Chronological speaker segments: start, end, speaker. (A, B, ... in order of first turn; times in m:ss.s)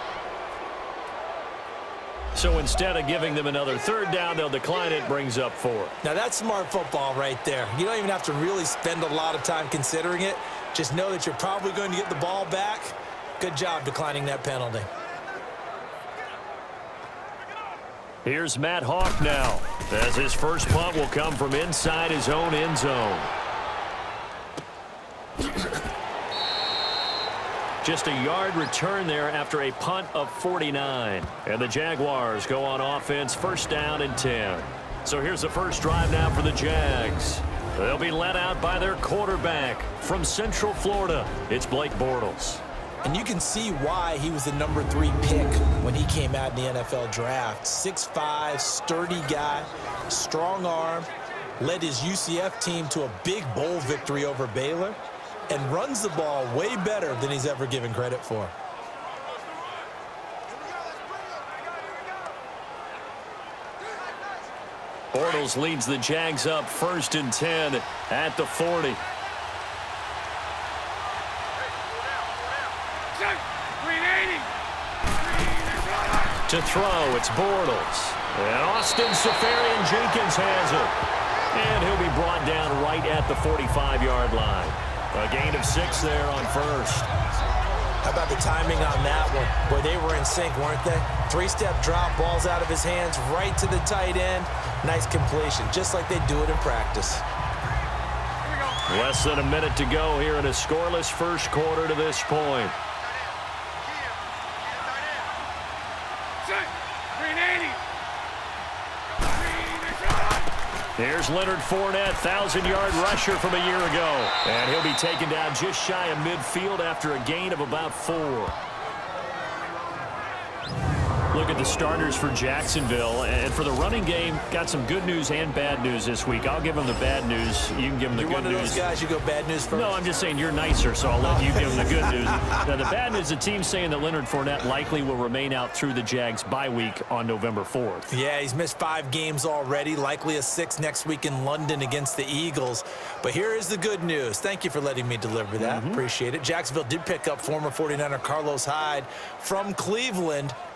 0:02.3-0:06.0 A
0:06.0-0:14.9 B
0:18.2-0:23.3 A
0:27.8-0:42.6 A
0:43.0-0:58.5 B
1:05.1-1:09.0 A
1:16.4-1:20.9 A
1:21.5-1:27.1 A
1:28.0-1:37.2 B
1:38.8-1:42.7 A
1:51.0-1:58.6 A
2:01.3-2:08.8 A
2:08.1-2:10.0 B
2:09.7-2:18.1 A
2:11.2-2:12.6 B
2:18.1-2:30.6 B
2:25.6-2:26.0 A